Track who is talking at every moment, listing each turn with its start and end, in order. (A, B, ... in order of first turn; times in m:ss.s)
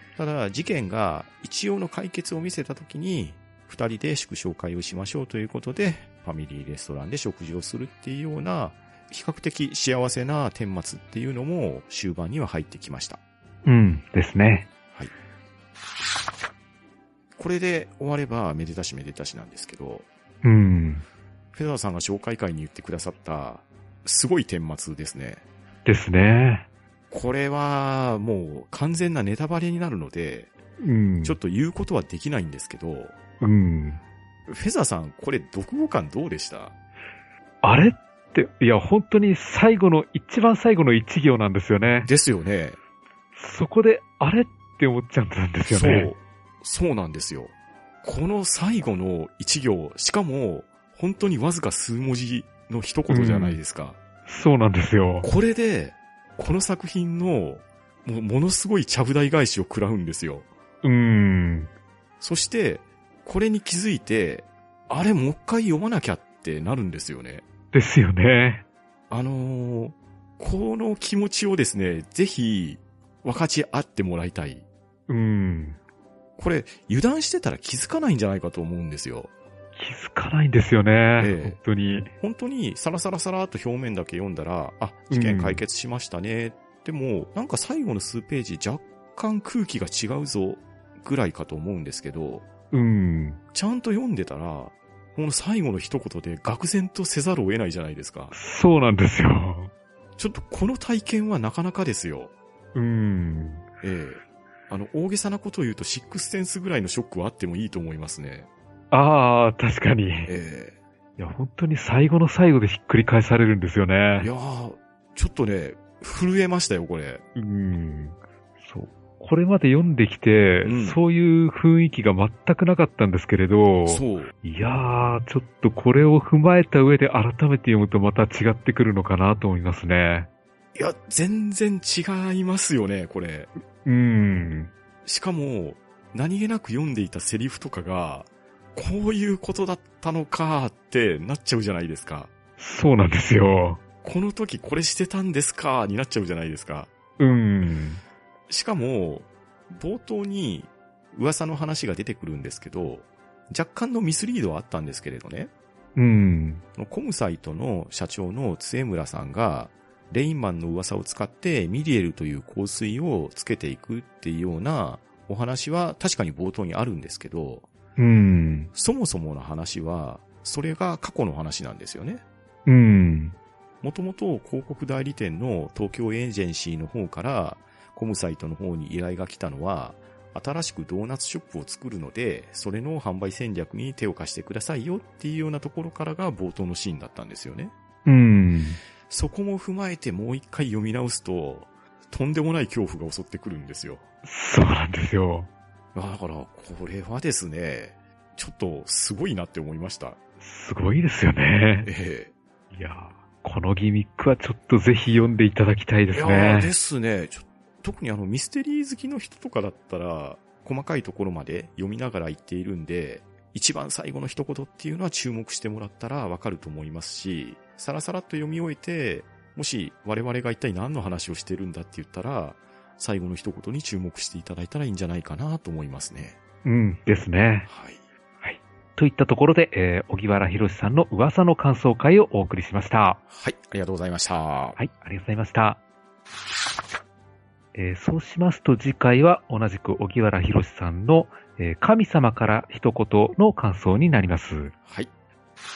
0:00.2-0:13.2 A
0:13.6-0:14.7 B
0:17.4-0:20.0 A
0:20.4-0:21.0 B
0:21.5-0:25.4 A
0:25.8-0:26.7 B
0:27.1-0:30.5 A
0:30.8-0:31.4 B
0:31.2-0:33.1 A
0:33.4-0:34.0 B
0:34.5-0:36.7 A
0:37.6-0:42.1 B
0:42.0-0:42.8 A
0:43.3-0:46.1 B
0:45.7-0:54.0 A
0:53.1-0:53.6 B
0:54.2-0:55.3 B
0:55.2-1:00.5 A
1:00.8-1:01.7 B
1:02.2-1:07.4 A
1:07.7-1:08.6 B
1:09.1-1:14.6 A
1:15.1-1:15.8 B
1:16.4-1:19.3 A
1:19.8-1:22.1 B
1:21.2-1:21.6 A
1:22.2-1:32.4 A
1:25.1-1:25.6 B
1:32.7-1:33.4 B
1:33.5-1:38.3 A
1:38.3-1:39.7 B
1:40.2-1:42.3 A
1:42.7-1:43.6 B
1:43.8-1:48.5 A
1:48.9-1:50.3 B
1:50.2-1:50.7 A
1:51.2-1:54.3 B
1:54.2-1:57.2 A
1:57.3-2:10.3 B
2:00.6-2:01.0 A
2:03.9-2:04.3 A
2:10.7-2:13.5 A
2:13.8-2:14.7 B
2:15.0-2:22.3 A
2:22.6-2:23.8 B
2:24.0-2:26.9 A
2:27.2-2:28.0 B
2:28.5-2:35.5 A
2:36.0-2:36.6 B
2:36.8-2:47.7 A
2:48.0-2:48.7 B
2:48.7-2:52.2 A
2:52.6-2:53.4 B
2:53.8-3:07.7 A
3:08.0-3:08.8 B
3:09.1-3:14.0 A
3:14.2-3:15.5 B
3:15.9-3:20.2 A
3:20.4-3:21.9 B
3:21.8-3:22.3 A
3:22.7-3:26.7 B
3:26.1-3:46.4 A
3:46.6-3:47.7 B
3:47.7-3:48.0 A
3:48.4-3:53.2 B
3:53.3-3:54.8 A
3:54.8-3:55.8 B
3:57.7-4:04.7 B
4:04.8-4:05.1 A